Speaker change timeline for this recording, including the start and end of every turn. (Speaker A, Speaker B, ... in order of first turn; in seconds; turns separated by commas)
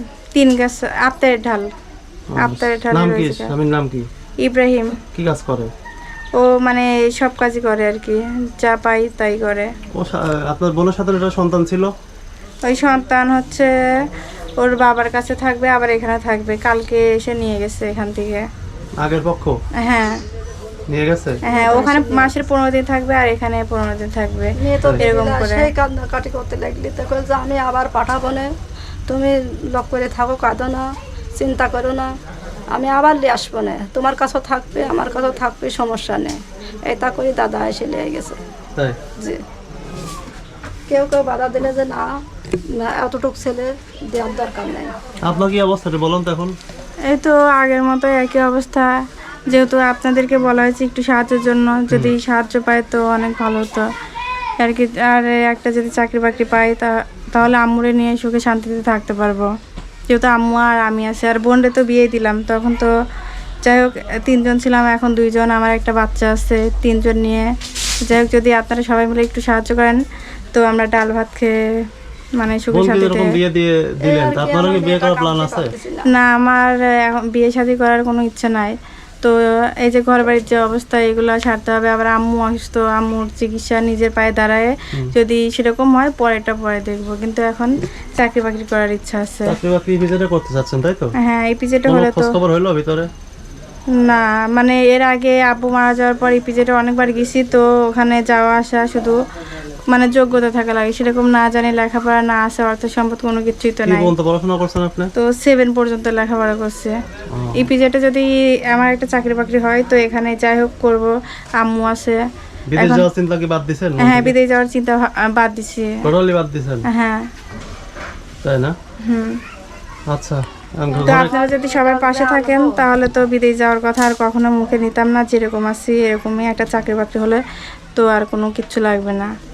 Speaker A: 0.3-1.7, Speaker B: 2.3-4.0, Speaker A: 2.4-3.5, Speaker A: 4.4-4.9, Speaker B: 5.1-5.7, Speaker A: 6.3-9.7, Speaker B: 9.9-11.9, Speaker A: 12.6-13.7, Speaker A: 14.6-18.4, Speaker B: 19.0-19.5, Speaker A: 19.8-20.2, Speaker B: 20.9-21.4, Speaker C: 21.5-22.4, Speaker A: 21.5-25.7, Speaker C: 24.6-28.5, Speaker C: 29.1-30.8, Speaker C: 31.3-32.1, Speaker C: 32.7-38.4, Speaker C: 40.9-42.1, Speaker C: 42.8-44.9, Speaker B: 45.2-46.5, Speaker A: 47.1-48.9, Speaker A: 49.5-53.9, Speaker A: 54.6-59.5, Speaker A: 60.1-62.9, Speaker A: 63.6-67.5, Speaker A: 68.0-70.0, Speaker A: 70.5-71.5, Speaker A: 72.4-73.3, Speaker B: 72.7-75.7, Speaker C: 74.0-76.1, Speaker A: 76.1-89.5, Speaker B: 89.5-91.1, Speaker A: 91.2-92.3, Speaker B: 91.9-93.1, Speaker A: 93.9-99.1, Speaker A: 99.9-104.1, Speaker B: 103.8-105.1, Speaker A: 105.2-106.9, Speaker B: 107.3-107.7, Speaker A: 107.6-112.2, Speaker B: 112.7-114.3, Speaker A: 112.8-113.1, Speaker A: 114.0-116.0, Speaker B: 116.0-116.8, Speaker A: 116.9-117.2, Speaker B: 118.4-118.7, Speaker A: 119.0-119.4, Speaker B: 120.1-121.3, Speaker C: 120.9-122.8, Speaker A: 121.0-127.4, Speaker A: 127.9-129.3